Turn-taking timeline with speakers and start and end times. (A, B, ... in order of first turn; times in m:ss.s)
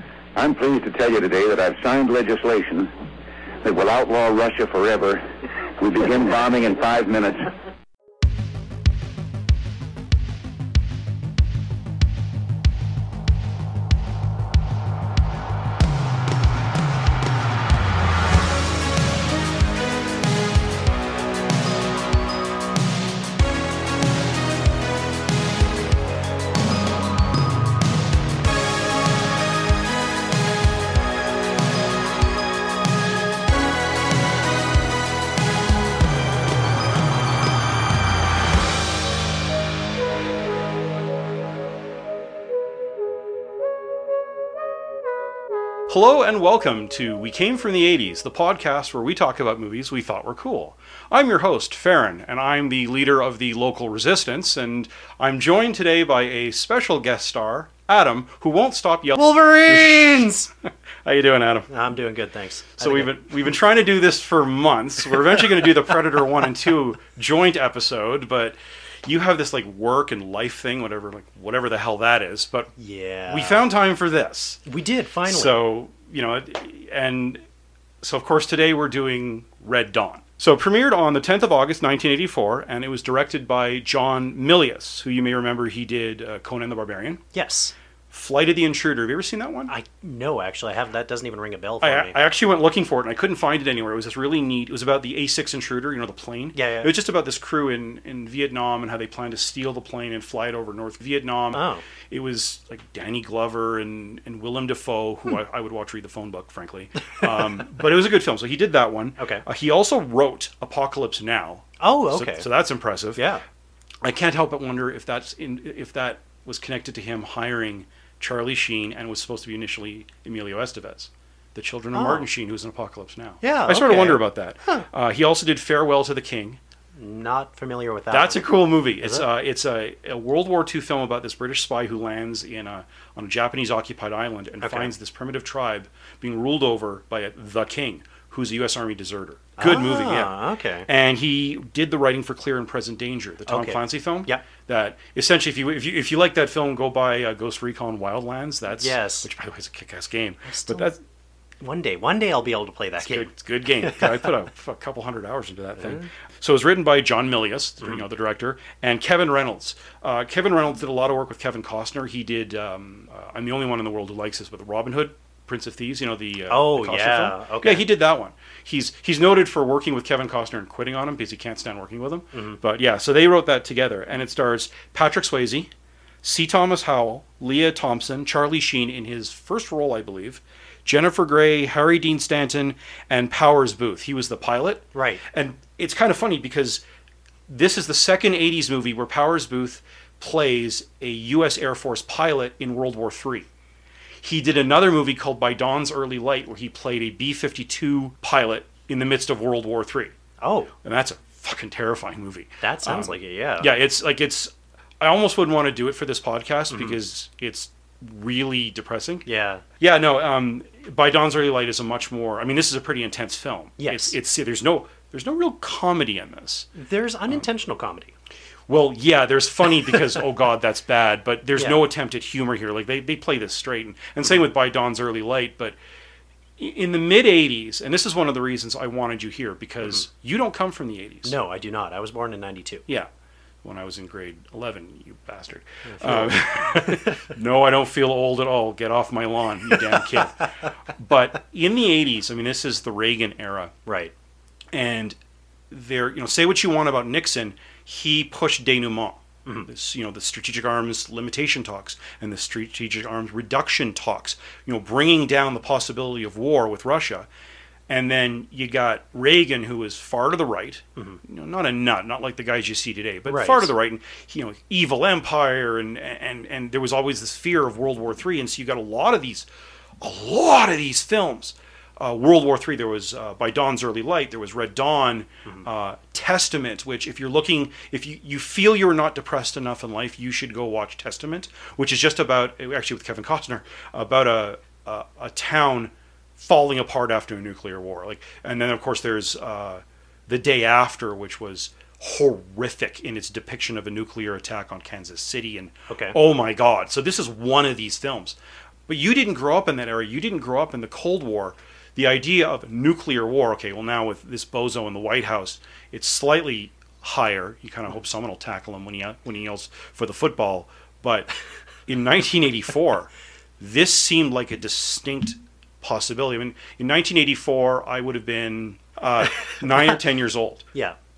0:00.4-0:02.9 A
0:03.6-0:05.2 A
0:05.8-0:07.5 A
0:45.9-1:00.3 B
0:59.2-1:00.5 C
1:01.0-1:01.7 B
1:01.7-1:03.2 C
1:02.8-1:12.7 B
1:12.8-1:13.6 C
1:13.3-1:14.6 B
1:14.7-1:15.6 C
1:15.2-1:17.4 B
1:18.0-1:27.2 B
1:27.3-1:27.8 C
1:28.1-1:29.7 B
1:29.7-1:32.2 C
1:31.8-1:53.2 B
1:36.6-1:36.9 C
1:41.5-1:41.8 C
1:49.2-1:49.4 C
1:51.8-1:52.5 C
1:53.2-1:53.4 C
1:54.0-2:06.6 B
2:01.9-2:02.3 C
2:03.4-2:04.9 C
2:07.0-2:09.3 C
2:08.1-2:20.4 B
2:14.6-2:14.9 C
2:19.6-2:20.9 C
2:20.9-2:31.0 B
2:23.5-2:24.4 C
2:28.7-2:29.3 C
2:30.4-2:30.9 C
2:31.6-2:34.3 C
2:33.0-2:55.7 B
2:35.8-2:36.1 C
2:46.5-2:47.9 C
2:52.3-2:52.6 C
2:56.2-3:06.8 B
3:04.9-3:05.2 C
3:07.5-3:13.5 B
3:14.2-3:20.1 B
3:20.4-3:20.7 C
3:20.8-3:29.2 B
3:22.6-3:23.8 C
3:26.7-3:27.0 C
3:29.3-3:29.6 C
3:29.8-3:36.7 B
3:33.8-3:34.2 C
3:36.7-3:38.2 C
3:38.7-3:45.8 B
3:41.6-3:41.8 C
3:46.6-3:51.4 B
3:51.2-3:52.8 C
3:53.6-4:03.7 B
3:55.9-3:57.2 C
4:00.0-4:00.3 C
4:03.9-4:04.1 C
4:04.7-4:05.2 B
4:05.7-4:17.3 B
4:17.9-4:29.5 B
4:23.3-4:23.7 C
4:30.0-5:11.3 B
4:55.9-4:56.2 C
5:11.9-5:20.7 B